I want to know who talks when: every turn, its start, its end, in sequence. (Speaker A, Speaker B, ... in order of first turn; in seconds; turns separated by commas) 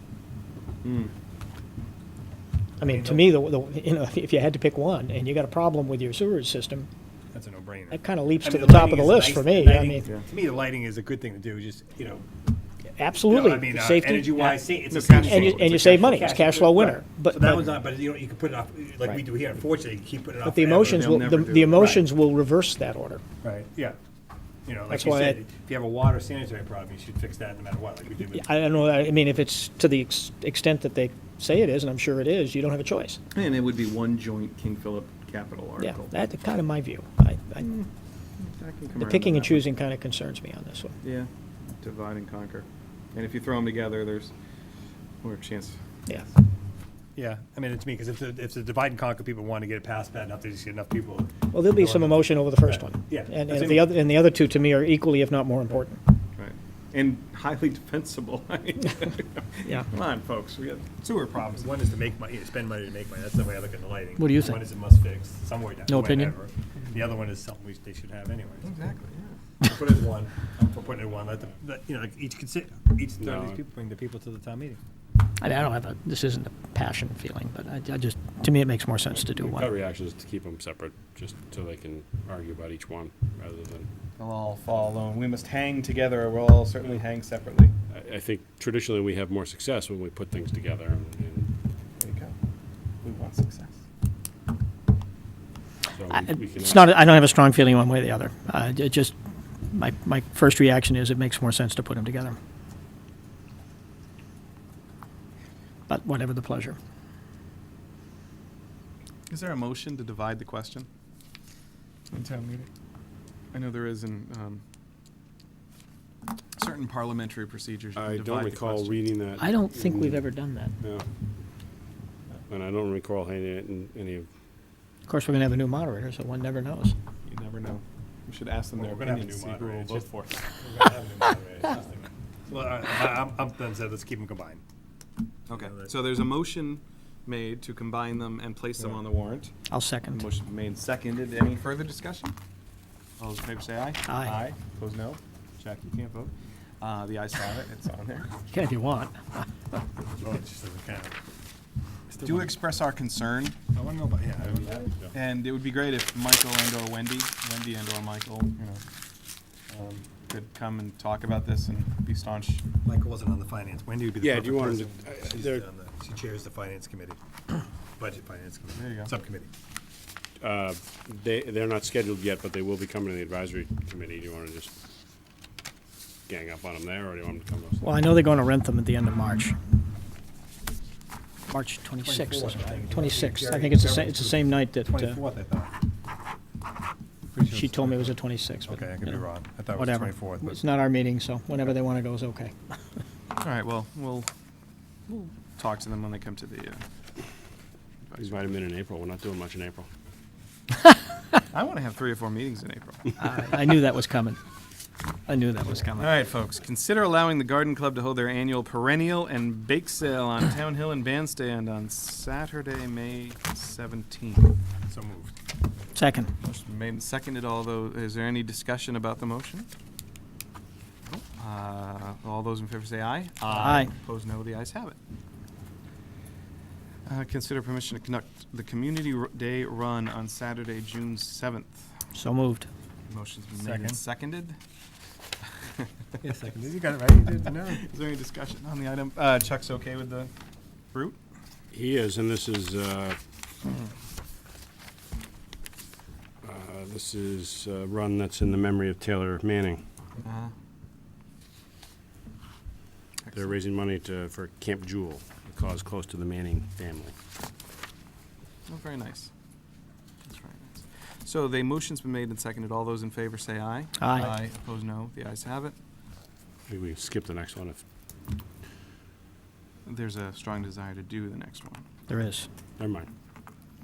Speaker A: 0.8-1.1, Speaker B: 2.8-3.3, Speaker C: 2.8-6.9, Speaker B: 7.3-12.3, Speaker C: 7.9-10.1, Speaker C: 13.0-17.8, Speaker B: 13.2-21.2, Speaker A: 14.9-15.9, Speaker C: 20.4-23.2, Speaker A: 20.9-22.1, Speaker B: 23.4-24.0, Speaker B: 24.6-28.5, Speaker C: 24.9-25.4, Speaker C: 28.3-33.2, Speaker A: 33.3-36.2, Speaker C: 35.8-37.7, Speaker A: 37.6-39.7, Speaker C: 39.0-41.0, Speaker A: 41.0-44.3, Speaker A: 45.2-45.8, Speaker B: 47.1-53.9, Speaker C: 51.5-56.0, Speaker A: 56.4-61.0, Speaker B: 61.0-68.7, Speaker C: 64.2-64.6, Speaker C: 65.9-66.3, Speaker A: 68.6-69.4, Speaker B: 69.6-74.8, Speaker D: 73.2-73.6, Speaker C: 75.4-79.7, Speaker D: 79.3-83.9, Speaker A: 84.2-87.7, Speaker D: 87.9-91.5, Speaker A: 92.0-92.3, Speaker A: 93.0-93.8, Speaker D: 95.9-96.9, Speaker C: 96.1-99.2, Speaker C: 99.7-102.4, Speaker C: 105.9-106.8, Speaker A: 109.3-110.9, Speaker A: 112.1-112.7, Speaker A: 113.5-114.6, Speaker A: 116.6-119.1, Speaker D: 118.0-120.3, Speaker C: 119.4-120.7, Speaker D: 120.8-121.1, Speaker D: 122.5-124.3, Speaker C: 125.1-127.0, Speaker A: 127.2-130.5, Speaker B: 128.8-134.6, Speaker A: 135.5-139.5, Speaker B: 135.5-135.9, Speaker C: 139.7-140.2, Speaker A: 140.1-142.4, Speaker A: 143.2-148.3, Speaker C: 144.1-144.4, Speaker C: 148.5-149.5, Speaker B: 150.2-151.2, Speaker B: 152.1-152.6, Speaker A: 152.2-153.6, Speaker B: 153.7-154.9, Speaker A: 155.1-158.8, Speaker B: 159.7-160.1, Speaker A: 160.3-162.6, Speaker B: 162.8-169.5, Speaker D: 164.2-165.6, Speaker A: 168.8-169.1, Speaker D: 170.4-174.7, Speaker D: 176.3-178.0, Speaker C: 177.8-179.6, Speaker C: 181.5-185.2, Speaker B: 182.0-185.7, Speaker B: 187.3-190.6, Speaker C: 187.5-192.6, Speaker A: 193.4-194.3, Speaker A: 195.1-196.8, Speaker A: 198.1-198.4, Speaker D: 198.2-199.9, Speaker A: 201.5-203.5, Speaker C: 203.2-204.4, Speaker C: 205.3-206.1, Speaker A: 206.0-214.6, Speaker B: 214.9-215.3, Speaker C: 215.9-216.3, Speaker A: 216.4-219.7, Speaker A: 221.2-225.0, Speaker C: 223.5-223.9, Speaker A: 227.1-231.9, Speaker C: 232.1-232.7, Speaker A: 233.1-234.6, Speaker B: 233.6-234.0, Speaker B: 236.2-237.8, Speaker A: 237.6-240.3, Speaker A: 240.9-241.2, Speaker D: 241.7-243.2, Speaker D: 246.4-249.8, Speaker A: 250.2-250.5, Speaker A: 253.2-253.5, Speaker D: 253.3-257.1, Speaker A: 258.7-259.3, Speaker A: 260.2-265.8, Speaker C: 264.0-264.3, Speaker D: 266.7-267.8, Speaker A: 269.9-271.9, Speaker C: 272.1-272.5, Speaker D: 272.8-273.1